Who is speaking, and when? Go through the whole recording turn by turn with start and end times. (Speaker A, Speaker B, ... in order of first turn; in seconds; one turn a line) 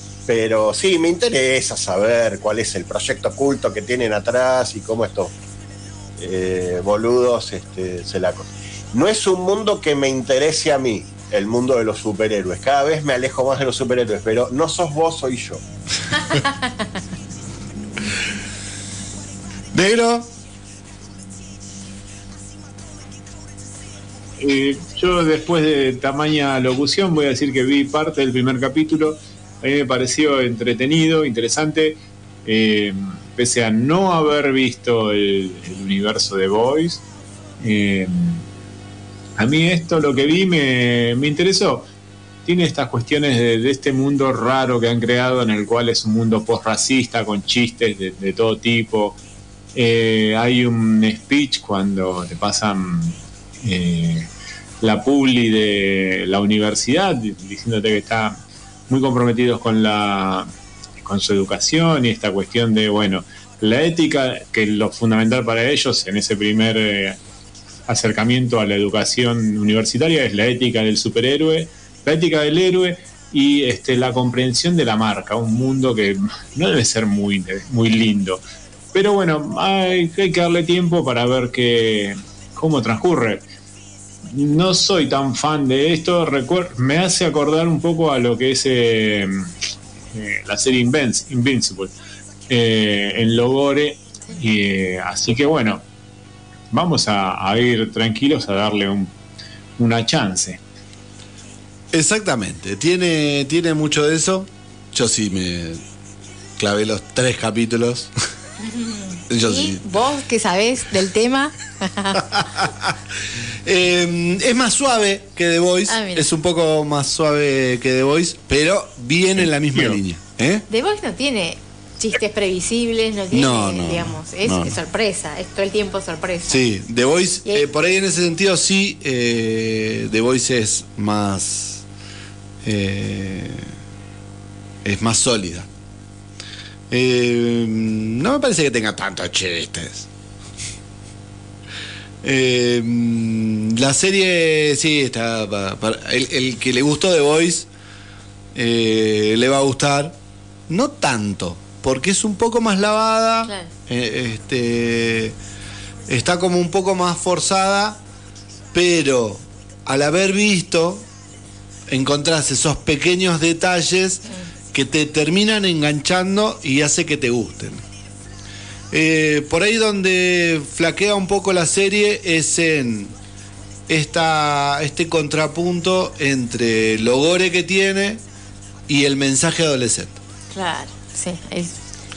Speaker A: 0.3-5.3
Speaker A: 6.2-15.6
Speaker B: 19.7-20.3
Speaker C: 24.4-37.0
Speaker C: 37.6-38.4
Speaker C: 39.4-41.9
Speaker C: 42.5-49.2
Speaker C: 49.7-54.3
Speaker C: 54.8-67.2
Speaker C: 67.9-78.4
Speaker C: 78.9-83.5
Speaker C: 84.3-89.5
Speaker C: 90.1-92.0
Speaker C: 92.5-95.8
Speaker C: 96.7-99.1
Speaker C: 99.8-100.6
Speaker B: 101.9-105.8
Speaker B: 106.6-108.1
Speaker D: 108.6-112.3
Speaker B: 109.3-109.8
Speaker B: 113.6-120.6
Speaker D: 115.9-116.3
Speaker D: 120.7-126.5
Speaker B: 123.3-124.8
Speaker B: 126.5-131.8
Speaker B: 132.6-133.7
Speaker B: 134.8-135.7
Speaker B: 136.9-140.1
Speaker B: 142.2-147.7
Speaker B: 148.5-150.2
Speaker B: 150.7-155.3
Speaker B: 156.1-158.0
Speaker B: 158.7-161.1
Speaker B: 161.9-167.8
Speaker B: 168.9-173.1
Speaker B: 173.9-178.2
Speaker B: 178.9-180.2
Speaker D: 180.5-181.7